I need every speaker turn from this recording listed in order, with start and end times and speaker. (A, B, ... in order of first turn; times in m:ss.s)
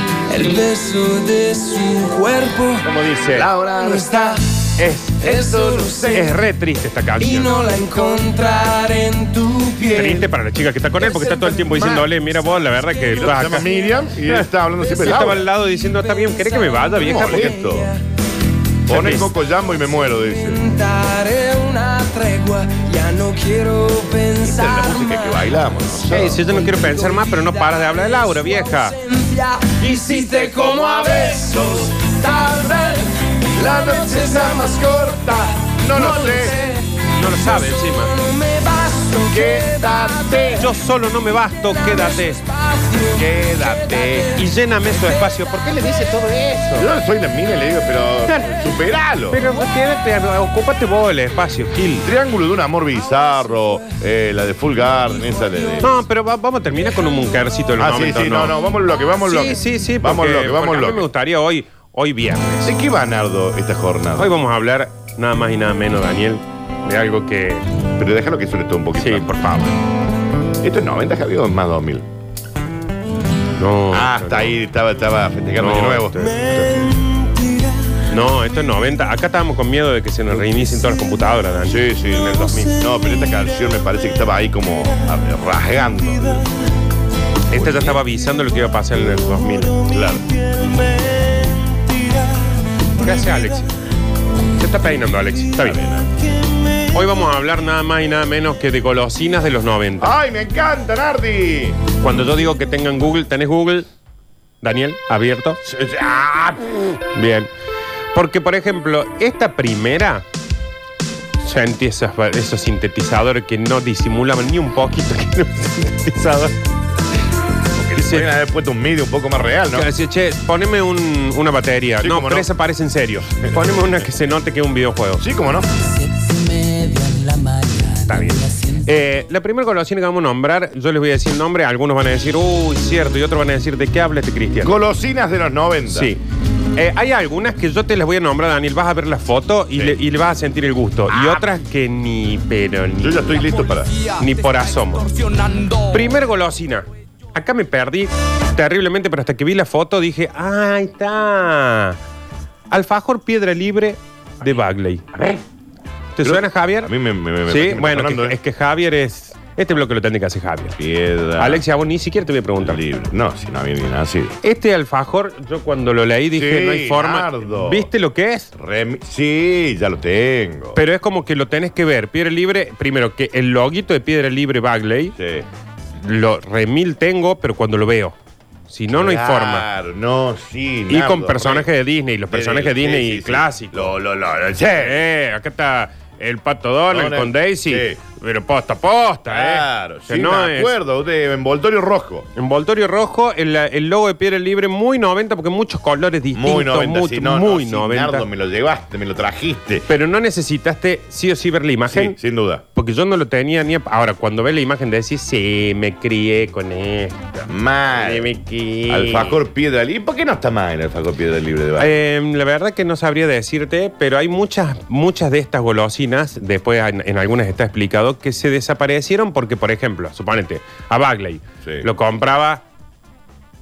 0:00.3-0:02.9 A
0:02.9-0:03.5 B
0:02.9-0:04.4 C
0:03.6-0:04.5 A
0:04.8-0:05.3 B
0:05.2-0:06.4 A
0:05.3-0:06.2 C
0:06.1-0:07.6 B
0:07.2-0:10.3 A
0:09.9-0:13.7 B
0:11.0-0:14.1 A
0:13.1-0:15.4 C
0:14.8-0:18.0 A
0:15.0-0:17.5 B
0:17.0-0:17.9 C
0:18.9-0:20.6 C
0:18.9-0:19.3 B
0:20.3-0:40.7 A
0:24.4-0:26.4 C
0:26.1-0:29.0 B
0:30.6-0:31.9 C
0:33.6-0:36.6 C
0:37.1-0:38.1 B
0:39.3-0:40.6 C
0:40.6-0:42.4 B
0:41.5-0:45.3 A
0:43.2-0:44.3 C
0:44.4-0:46.9 B
0:46.8-0:49.4 C
0:48.3-0:48.6 B
0:49.3-0:52.1 B
0:52.0-0:55.9 C
0:52.9-0:54.0 A
0:54.9-0:55.9 A
0:55.8-0:58.6 B
0:57.8-1:01.1 C
0:59.2-1:02.8 B
1:02.6-1:04.3 C
1:04.2-1:07.7 B
1:08.0-1:09.7 C
1:09.0-1:09.7 B
1:10.6-1:12.1 C
1:13.5-1:14.6 B
1:13.9-1:16.7 C
1:15.6-1:16.7 B
1:16.6-1:18.0 A
1:18.1-1:22.8 B
1:21.7-1:26.5 C
1:22.9-1:23.4 A
1:27.5-1:29.8 B
1:27.5-1:28.0 C
1:29.9-1:30.2 C
1:30.5-1:31.7 A
1:33.0-1:33.7 B
1:33.0-1:33.5 A
1:34.6-1:35.8 B
1:35.6-1:36.1 C
1:36.9-1:40.1 B
1:40.0-1:41.8 C
1:42.0-1:43.9 B
1:44.6-1:45.6 B
1:45.6-1:46.9 C
1:47.1-1:47.5 B
1:48.1-1:50.2 B
1:51.4-1:56.6 B
1:57.7-1:59.9 C
1:58.0-1:58.3 B
1:59.7-2:05.2 B
2:02.0-2:02.5 C
2:03.4-2:03.8 C
2:05.2-2:05.7 C
2:06.0-2:08.7 A
2:08.1-2:14.8 B
2:14.6-2:16.1 C
2:15.9-2:16.2 B
2:16.8-2:23.4 B
2:21.1-2:21.4 C
2:23.0-2:23.9 C
2:23.4-2:26.1 A
2:24.2-2:25.1 B
2:25.9-2:32.0 B
2:32.7-2:35.0 B
2:35.1-2:35.4 C
2:36.2-2:36.9 B
2:36.2-2:38.4 C
2:37.5-2:40.8 B
2:40.8-2:41.6 C
2:41.4-2:42.8 B
2:42.6-2:44.4 C
2:44.4-2:48.5 B
2:46.3-2:47.9 C
2:48.6-2:50.8 C
2:50.8-2:55.2 B
2:55.2-2:55.5 C
2:56.0-2:58.2 B
2:58.7-2:59.7 B
2:58.9-3:01.7 C
3:00.9-3:04.0 B
3:02.3-3:05.0 C
3:04.8-3:10.7 B
3:06.9-3:08.0 C
3:09.3-3:12.3 C
3:12.4-3:18.3 B
3:16.3-3:19.9 C
3:19.9-3:22.2 B
3:21.9-3:22.6 C
3:22.8-3:27.3 B
3:27.5-3:28.3 C
3:28.0-3:29.4 B
3:28.9-3:31.9 C
3:31.8-3:42.6 B